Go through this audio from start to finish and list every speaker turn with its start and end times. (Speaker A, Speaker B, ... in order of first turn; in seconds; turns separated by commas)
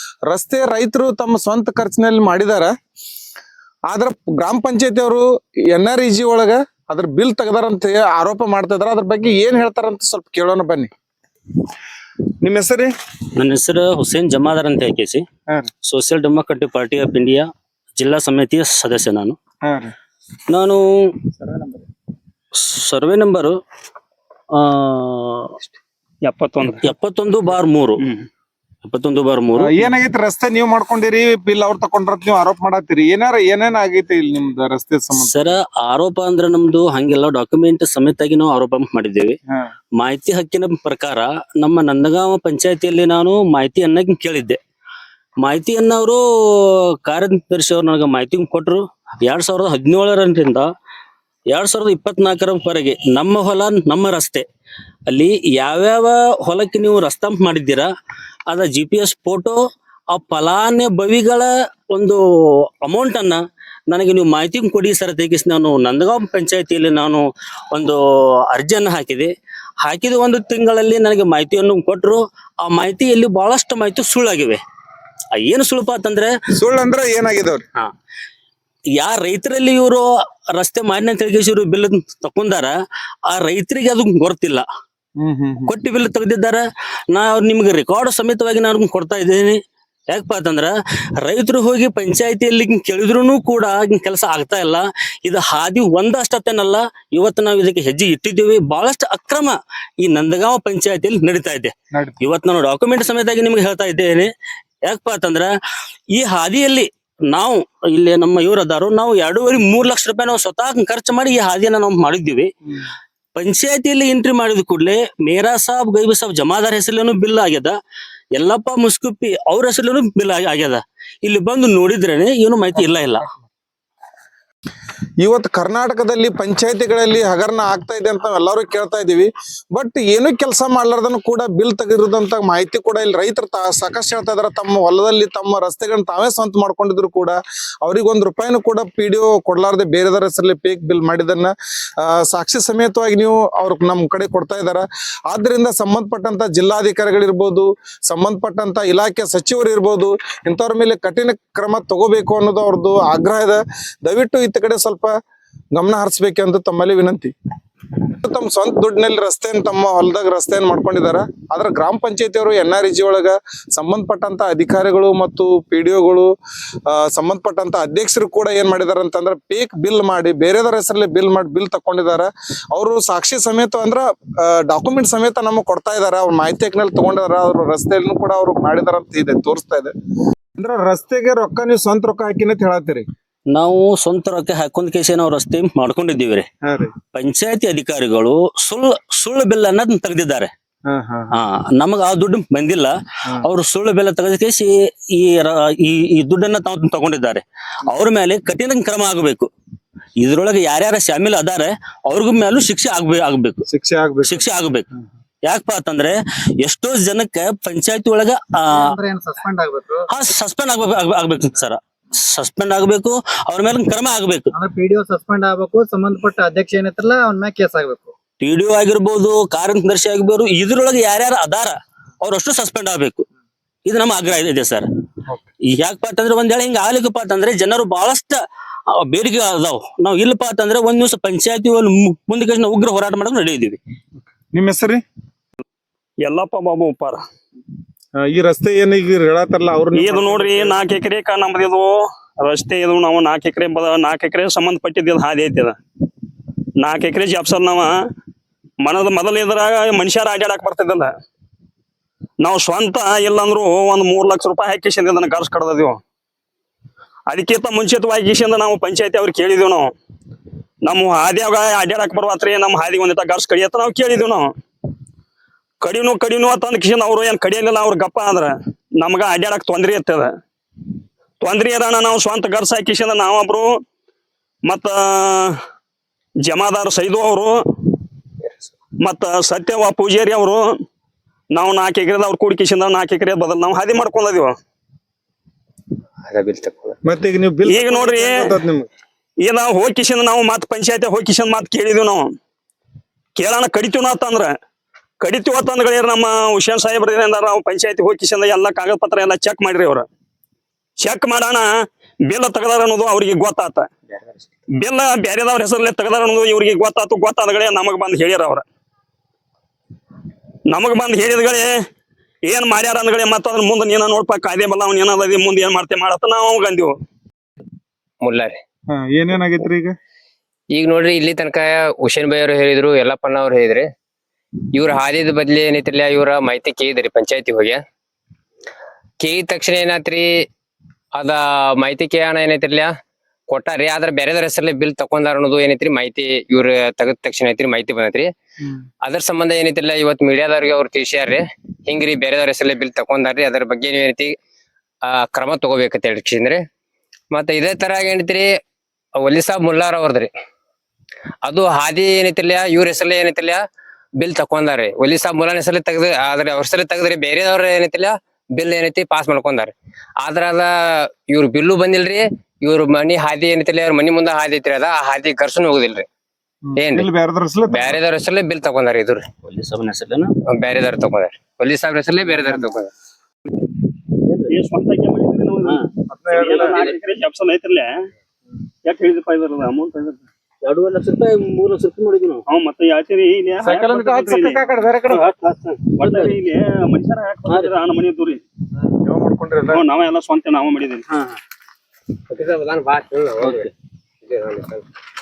Speaker A: 0.3-2.7, Speaker A: 3.9-10.9, Speaker A: 12.4-12.9, Speaker B: 13.3-15.2, Speaker B: 15.8-19.4, Speaker A: 19.6-19.9, Speaker B: 20.5-20.8, Speaker C: 21.5-21.7, Speaker B: 22.6-23.6, Speaker B: 24.6-25.6, Speaker D: 26.2-26.9, Speaker B: 26.8-28.0, Speaker D: 28.0-28.3, Speaker B: 28.9-29.7, Speaker A: 29.6-35.5, Speaker B: 35.2-39.4, Speaker B: 40.0-44.6, Speaker B: 45.4-50.6, Speaker B: 51.5-54.5, Speaker B: 55.1-57.9, Speaker B: 58.5-59.6, Speaker B: 60.1-63.4, Speaker B: 63.9-74.6, Speaker B: 75.3-76.3, Speaker A: 76.5-77.6, Speaker B: 79.0-82.7, Speaker B: 83.3-84.6, Speaker A: 85.2-85.7, Speaker B: 85.7-104.3, Speaker A: 101.9-102.2, Speaker B: 104.8-105.5, Speaker B: 106.1-112.5, Speaker B: 113.3-117.8, Speaker B: 118.3-123.3, Speaker A: 125.2-155.1, Speaker A: 155.7-157.3, Speaker A: 158.1-166.3, Speaker A: 166.9-179.9, Speaker A: 180.6-183.1, Speaker B: 183.5-186.5, Speaker A: 186.6-186.9, Speaker B: 187.1-190.5, Speaker A: 190.9-191.4, Speaker B: 191.3-199.5, Speaker B: 200.2-203.6, Speaker A: 203.7-204.5, Speaker B: 204.2-204.9, Speaker B: 205.4-208.9, Speaker C: 208.7-210.1, Speaker B: 210.1-214.5, Speaker C: 214.5-218.1, Speaker B: 218.4-223.3, Speaker B: 223.9-224.8, Speaker B: 225.7-228.4, Speaker B: 228.9-233.8, Speaker A: 234.5-235.0, Speaker D: 236.2-237.2, Speaker A: 238.2-240.8, Speaker D: 239.9-245.8, Speaker D: 246.8-247.9, Speaker D: 248.8-251.1, Speaker D: 252.4-256.0, Speaker D: 257.3-259.9, Speaker D: 260.8-264.5, Speaker D: 265.8-270.3, Speaker D: 271.4-273.8, Speaker D: 274.7-275.6, Speaker D: 276.4-277.5, Speaker D: 279.0-280.8, Speaker D: 281.5-284.6, Speaker E: 286.3-287.0, Speaker A: 287.1-288.9, Speaker D: 287.7-288.5, Speaker D: 289.4-292.3, Speaker D: 293.4-294.6, Speaker D: 295.2-300.1, Speaker D: 301.0-303.9, Speaker D: 304.8-308.6, Speaker D: 310.7-311.8, Speaker D: 312.4-316.9, Speaker E: 318.2-318.6, Speaker A: 318.9-319.9, Speaker E: 320.7-323.9, Speaker E: 324.7-327.8, Speaker E: 329.2-330.4, Speaker E: 331.1-332.9, Speaker E: 333.5-338.3, Speaker E: 339.0-344.4, Speaker E: 345.0-346.6, Speaker E: 347.3-348.6, Speaker E: 349.2-350.3, Speaker E: 351.4-353.6, Speaker E: 354.2-366.1, Speaker A: 366.7-368.0, Speaker E: 366.8-367.1, Speaker E: 367.7-369.2, Speaker B: 369.4-370.3, Speaker E: 370.5-372.9, Speaker B: 374.2-374.5, Speaker D: 374.5-377.9, Speaker A: 376.1-376.8, Speaker B: 376.5-376.9, Speaker D: 378.9-380.2, Speaker B: 380.6-382.4, Speaker D: 382.5-384.6, Speaker A: 383.6-385.2, Speaker B: 385.1-386.4, Speaker D: 386.0-388.4, Speaker B: 387.5-387.7, Speaker A: 389.0-389.8, Speaker D: 389.7-391.1, Speaker B: 391.1-391.4, Speaker E: 392.3-393.7, Speaker E: 394.2-394.9